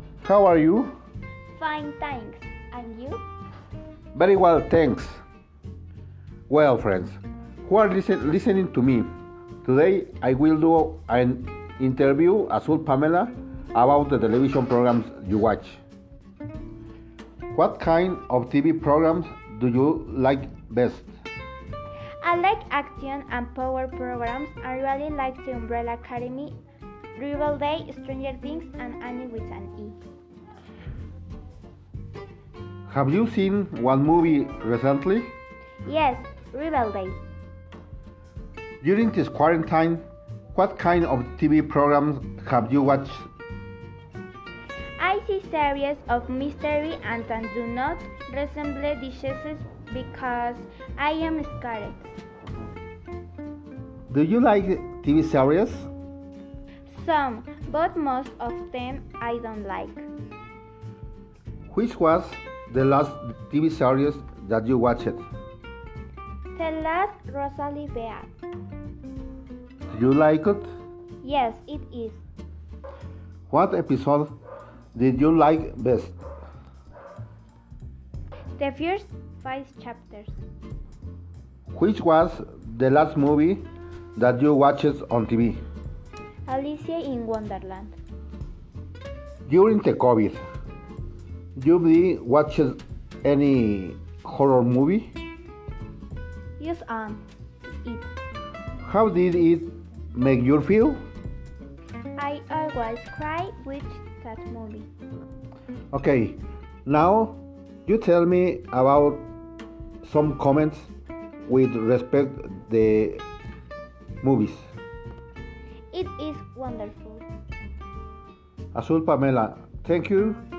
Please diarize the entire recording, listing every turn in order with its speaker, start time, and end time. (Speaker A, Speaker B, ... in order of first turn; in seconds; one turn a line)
Speaker A: 0.2-1.0
Speaker B: 1.5-3.2
Speaker A: 4.1-5.2
Speaker A: 6.5-9.1
Speaker A: 9.6-15.8
Speaker A: 17.5-21.1
Speaker B: 22.2-26.6
Speaker B: 27.1-30.0
Speaker A: 32.9-35.3
Speaker B: 35.8-37.2
Speaker A: 38.8-43.2
Speaker B: 45.0-52.1
Speaker A: 54.1-55.9
Speaker B: 56.9-60.1
Speaker A: 61.7-65.2
Speaker B: 66.5-68.3
Speaker A: 69.9-70.7
Speaker B: 71.2-72.2
Speaker A: 73.5-74.3
Speaker A: 74.9-76.2
Speaker B: 78.6-80.3
Speaker A: 81.7-85.6
Speaker B: 86.5-87.9
Speaker A: 89.5-90.4
Speaker A: 91.6-95.1
Speaker B: 96.6-98.1
Speaker A: 98.8-101.0
Speaker B: 102.2-104.9
Speaker A: 105.9-109.3
Speaker A: 110.0-110.9
Speaker A: 111.5-113.2
Speaker A: 114.2-114.7
Speaker B: 115.9-117.2
Speaker A: 118.7-120.4